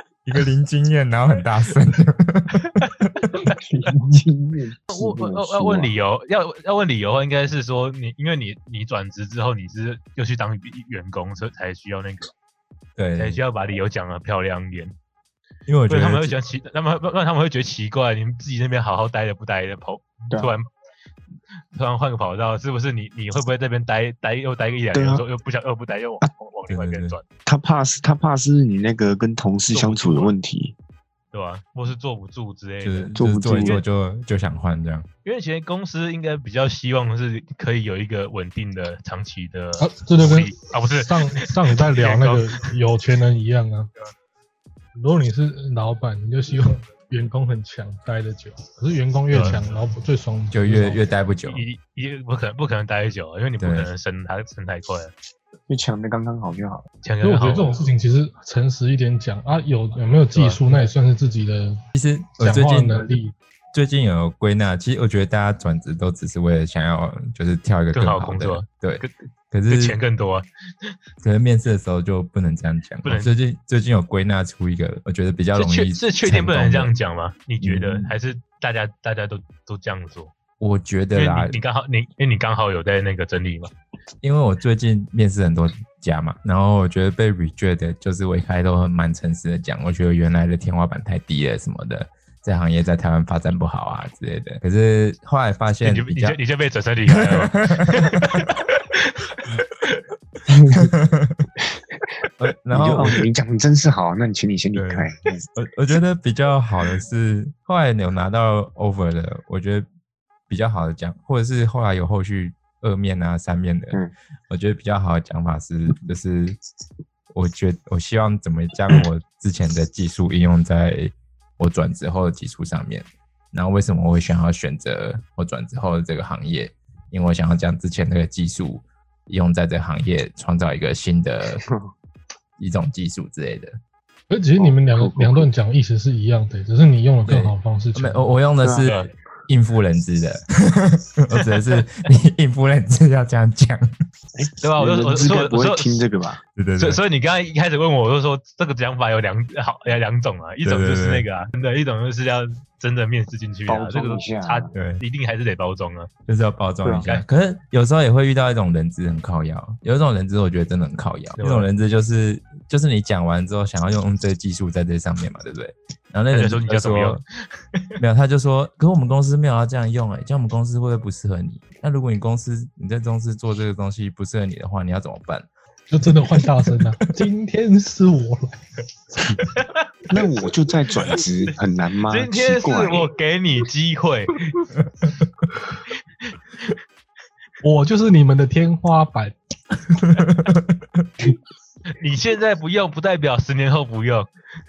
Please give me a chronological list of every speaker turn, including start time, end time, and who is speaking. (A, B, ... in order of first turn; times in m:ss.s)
0:00.3-0:03.5 A
0:03.4-0:05.9 B
0:04.9-0:12.3 C
0:13.0-0:13.4 A
0:13.2-0:14.9 C
0:15.7-0:16.4 A
0:15.9-0:20.7 C
0:20.3-0:20.6 B
0:21.8-0:27.2 C
0:24.9-0:25.2 B
0:26.7-0:27.2 A
0:27.5-0:30.8 B
0:29.7-0:30.3 C
0:31.3-0:33.8 C
0:32.8-0:35.1 A
0:33.2-0:33.8 B
0:35.2-0:42.6 C
0:39.8-0:43.9 D
0:45.0-0:51.0 D
0:49.3-0:49.6 C
0:50.5-0:51.6 A
0:51.4-0:55.1 C
0:53.6-0:53.9 A
0:55.7-0:56.9 B
0:57.0-0:57.8 C
0:57.2-1:01.8 D
1:00.3-1:00.9 C
1:02.0-1:03.1 A
1:02.4-1:03.3 D
1:03.7-1:10.0 A
1:07.9-1:09.1 C
1:09.7-1:11.0 C
1:11.2-1:16.9 A
1:13.0-1:13.4 C
1:15.6-1:20.3 C
1:17.6-1:18.1 A
1:20.6-1:21.6 A
1:21.1-1:23.7 C
1:24.2-1:36.4 A
1:35.8-1:40.0 C
1:37.1-1:38.4 A
1:40.5-1:40.9 B
1:40.7-1:41.5 A
1:42.2-1:45.5 B
1:42.4-1:43.2 A
1:44.7-1:49.9 A
1:50.5-1:56.6 A
1:57.3-2:11.6 A
2:11.6-2:11.9 B
2:12.6-2:13.8 A
2:14.3-2:18.3 D
2:14.6-2:15.5 B
2:17.3-2:23.9 A
2:18.6-2:18.9 B
2:18.8-2:19.1 C
2:24.4-2:26.4 B
2:24.6-2:26.0 C
2:26.6-2:27.0 A
2:26.8-2:36.1 C
2:30.6-2:31.3 A
2:33.7-2:34.7 B
2:34.7-2:35.0 A
2:36.3-2:47.2 A
2:36.8-2:37.1 B
2:41.4-2:41.7 C
2:46.3-2:47.2 C
2:48.0-2:55.5 A
2:55.9-2:58.6 D
2:56.1-2:56.8 A
2:59.1-2:59.5 D
3:00.1-3:03.1 B
3:02.1-3:04.6 C
3:04.8-3:05.3 A
3:07.6-3:09.4 D
3:10.2-3:11.1 A
3:11.9-3:14.3 C